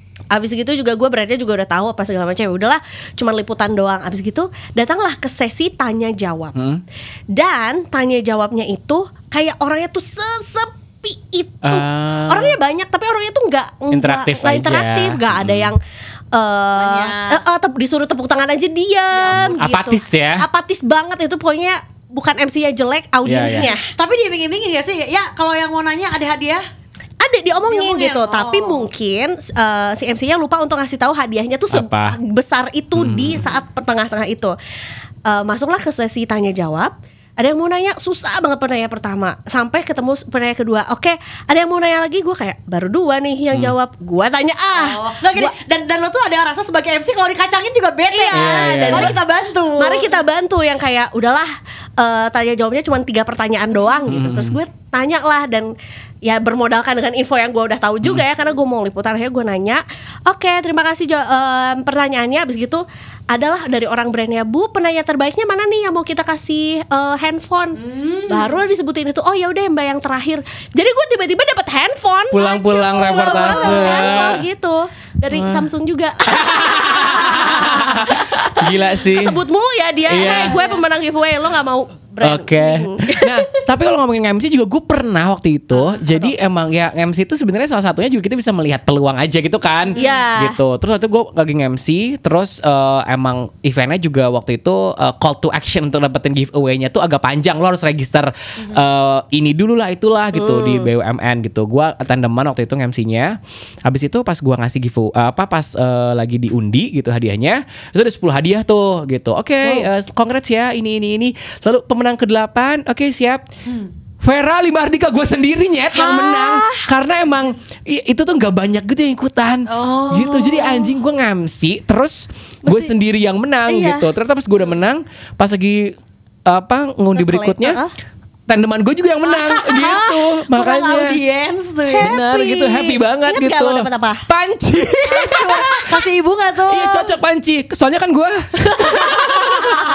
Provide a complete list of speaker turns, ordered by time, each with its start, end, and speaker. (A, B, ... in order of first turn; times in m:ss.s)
0:00.3-0:06.6 A
0:06.6-0:06.8 B
0:07.3-0:15.8 A
0:11.6-0:12.6 B
0:13.9-0:15.7 B
0:16.3-0:23.8 A
0:16.8-0:17.4 C
0:19.1-0:19.6 C
0:19.4-0:20.4 B
0:23.2-0:23.7 B
0:23.4-0:26.6 C
0:27.2-0:34.6 A
0:27.7-0:28.9 C
0:31.7-0:32.2 B
0:33.0-0:33.4 B
0:35.3-0:45.5 A
0:44.7-0:50.2 C
0:48.1-0:49.2 A
0:48.3-0:49.2 B
0:49.8-0:55.7 A
0:54.1-0:54.6 B
0:56.2-1:23.6 A
1:07.8-1:08.6 C
1:12.3-1:14.4 B
1:13.1-1:14.4 C
1:15.3-1:15.7 B
1:16.2-1:19.4 B
1:20.1-1:20.6 B
1:20.2-1:20.8 C
1:22.2-1:53.4 B
1:29.9-1:30.2 C
1:30.0-1:30.6 A
1:40.4-1:40.9 A
1:54.2-2:07.8 B
1:56.0-1:56.9 A
1:59.7-2:00.9 A
2:02.6-2:02.9 A
2:03.7-2:04.1 A
2:07.2-2:07.9 A
2:08.5-2:11.2 B
2:09.3-2:10.0 A
2:10.5-2:12.2 C
2:12.0-2:14.2 A
2:12.0-2:15.9 B
2:15.1-2:17.2 C
2:16.7-2:18.5 B
2:18.7-2:19.8 C